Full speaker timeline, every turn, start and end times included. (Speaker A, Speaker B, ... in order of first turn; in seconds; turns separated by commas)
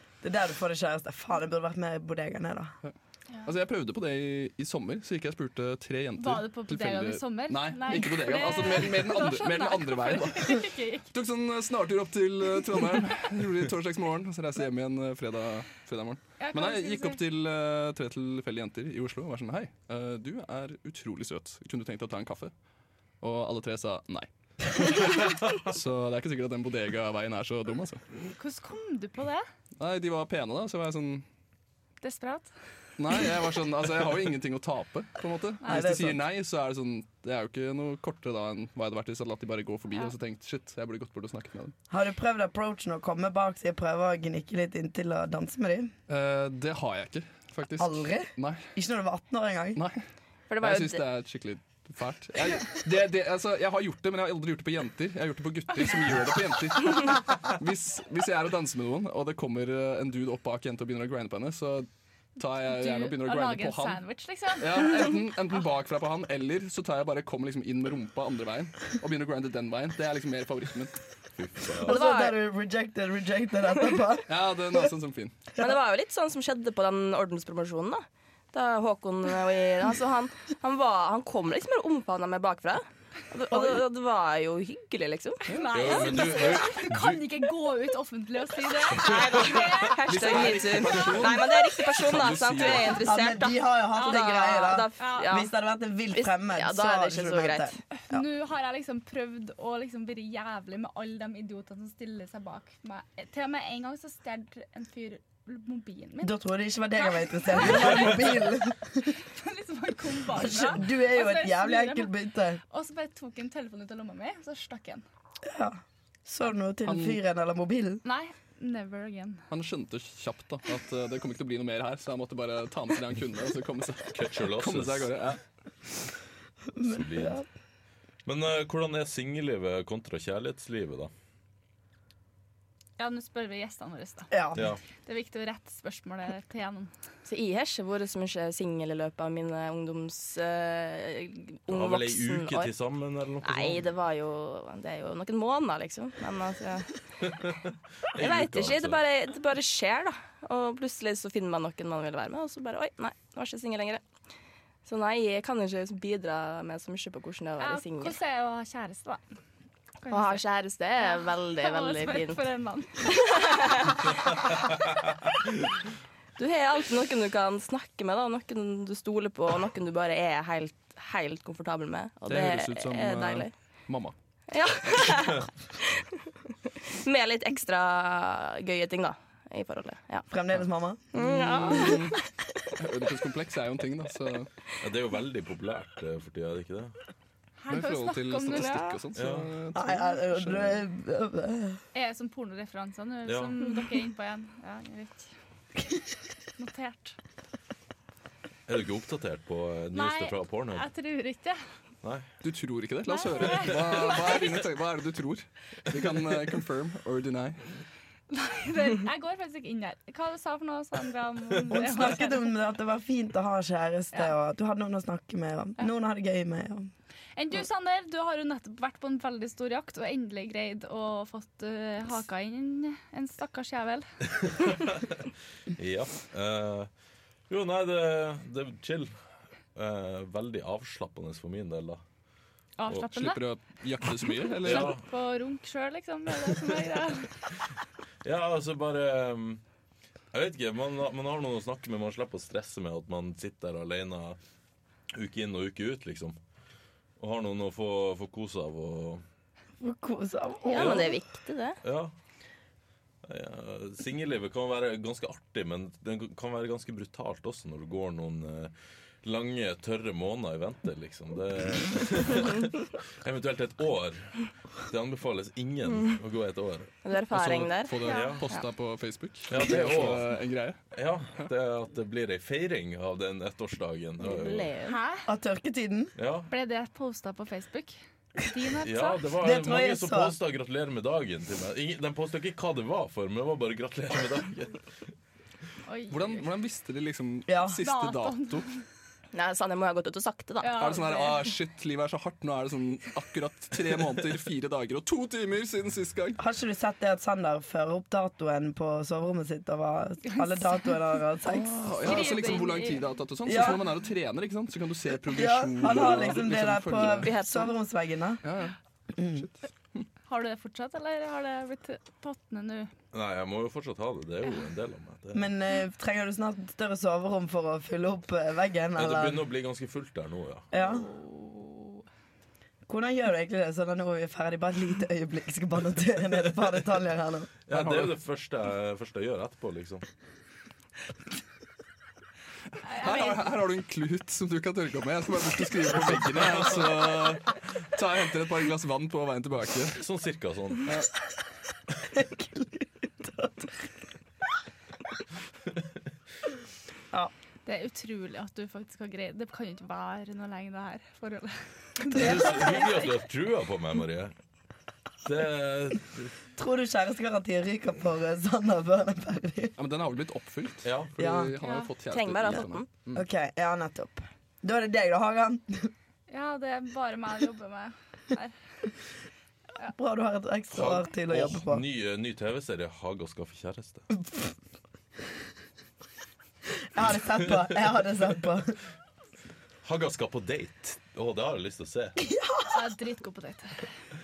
Speaker A: 0.2-2.8, Speaker B: 3.5-22.5, Speaker C: 6.2-11.1, Speaker C: 16.4-17.2, Speaker B: 23.2-28.0, Speaker C: 28.4-29.5, Speaker B: 29.8-31.2, Speaker C: 32.0-32.5, Speaker B: 33.0-41.7, Speaker A: 35.7-36.2, Speaker A: 41.9-45.9, Speaker B: 46.1-48.7, Speaker A: 47.8-49.8, Speaker B: 49.8-50.0, Speaker D: 50.5-51.0, Speaker B: 50.6-64.0, Speaker C: 62.6-64.9, Speaker B: 64.6-71.0, Speaker E: 71.4-72.0, Speaker A: 71.8-74.3, Speaker D: 71.9-72.4, Speaker B: 74.3-75.3, Speaker D: 75.6-85.5, Speaker A: 83.5-83.8, Speaker B: 85.5-85.9, Speaker C: 85.5-90.6, Speaker E: 85.7-87.3, Speaker D: 89.0-95.5, Speaker B: 90.1-93.1, Speaker A: 93.0-98.2, Speaker C: 94.0-95.4, Speaker D: 96.1-97.8, Speaker C: 98.1-106.4, Speaker A: 106.2-109.1, Speaker C: 107.0-108.5, Speaker C: 109.3-112.1, Speaker A: 110.3-112.6, Speaker C: 112.7-115.0, Speaker A: 115.5-118.0, Speaker B: 116.9-117.2, Speaker C: 118.0-119.5, Speaker B: 119.5-125.4, Speaker E: 124.1-125.1, Speaker A: 126.7-127.5, Speaker E: 126.8-127.4, Speaker E: 128.2-131.1, Speaker C: 133.0-134.3, Speaker A: 134.3-134.7, Speaker C: 135.0-136.9, Speaker D: 137.2-142.7, Speaker E: 141.7-143.8, Speaker D: 143.4-146.9, Speaker E: 147.2-149.0, Speaker D: 148.2-154.0, Speaker D: 154.9-158.2, Speaker C: 157.6-159.3, Speaker C: 160.0-160.4, Speaker D: 160.1-162.4, Speaker C: 161.0-164.1, Speaker D: 163.1-164.0, Speaker D: 166.4-173.5, Speaker B: 172.3-174.2, Speaker D: 174.5-175.9, Speaker D: 177.0-180.3, Speaker A: 180.3-181.0, Speaker D: 181.1-182.1, Speaker B: 181.2-182.2, Speaker B: 182.8-184.5, Speaker E: 184.8-186.9, Speaker C: 187.6-188.8, Speaker B: 187.7-190.8, Speaker D: 188.6-189.0, Speaker E: 189.2-189.5, Speaker A: 189.8-191.8, Speaker C: 191.9-195.3, Speaker E: 193.3-193.6, Speaker C: 196.6-197.2, Speaker E: 198.7-200.9, Speaker C: 199.9-201.6, Speaker B: 202.4-207.6, Speaker C: 203.1-204.6, Speaker C: 208.3-212.5, Speaker A: 211.7-216.9, Speaker C: 217.4-224.1, Speaker E: 224.4-226.9, Speaker E: 227.5-229.1, Speaker E: 229.8-232.0, Speaker C: 232.8-233.4, Speaker B: 233.1-234.9, Speaker C: 234.6-237.3, Speaker E: 234.6-235.0, Speaker E: 238.2-239.6, Speaker E: 240.3-244.4, Speaker E: 245.1-246.4, Speaker E: 247.2-249.2, Speaker A: 249.8-251.1, Speaker D: 250.7-251.8, Speaker E: 250.7-251.1, Speaker E: 251.8-252.1, Speaker E: 253.2-266.9, Speaker D: 267.0-268.0, Speaker B: 267.3-270.8, Speaker C: 268.1-268.4, Speaker E: 268.1-268.4, Speaker E: 269.5-270.3, Speaker E: 270.9-274.7, Speaker D: 274.2-275.0, Speaker C: 274.9-275.3, Speaker A: 275.3-276.1, Speaker E: 276.2-276.5, Speaker C: 276.5-279.2, Speaker E: 278.8-284.8, Speaker A: 279.4-280.4, Speaker C: 285.9-286.5, Speaker B: 286.1-288.6, Speaker A: 287.5-287.8, Speaker C: 287.8-288.8, Speaker D: 289.3-290.9, Speaker C: 290.6-291.5, Speaker B: 290.8-296.4, Speaker A: 296.4-302.6, Speaker C: 300.3-301.0, Speaker B: 301.4-307.4, Speaker C: 302.0-303.1, Speaker A: 303.5-303.8, Speaker A: 305.3-308.4, Speaker D: 307.0-307.7, Speaker B: 308.4-308.8, Speaker A: 309.1-309.5, Speaker B: 309.4-310.1, Speaker C: 310.3-312.9, Speaker E: 313.1-315.5, Speaker A: 315.3-319.4, Speaker E: 319.0-320.7, Speaker A: 320.7-321.1, Speaker C: 320.8-322.1, Speaker A: 322.9-327.6, Speaker E: 327.7-330.1, Speaker B: 327.7-328.1, Speaker C: 332.9-333.5, Speaker B: 332.9-340.0, Speaker E: 339.9-340.9, Speaker A: 342.1-343.9, Speaker C: 347.7-353.1, Speaker E: 352.1-354.3, Speaker A: 352.1-352.5, Speaker E: 355.2-356.3, Speaker A: 356.6-359.8, Speaker B: 359.8-363.2, Speaker E: 360.8-361.1, Speaker A: 361.2-361.5, Speaker C: 361.6-361.9, Speaker D: 362.1-362.9, Speaker A: 363.1-365.9, Speaker C: 366.3-368.6, Speaker A: 369.9-371.8, Speaker E: 370.7-374.1, Speaker A: 376.9-378.8, Speaker E: 379.8-382.2, Speaker A: 382.2-382.7, Speaker C: 382.7-383.9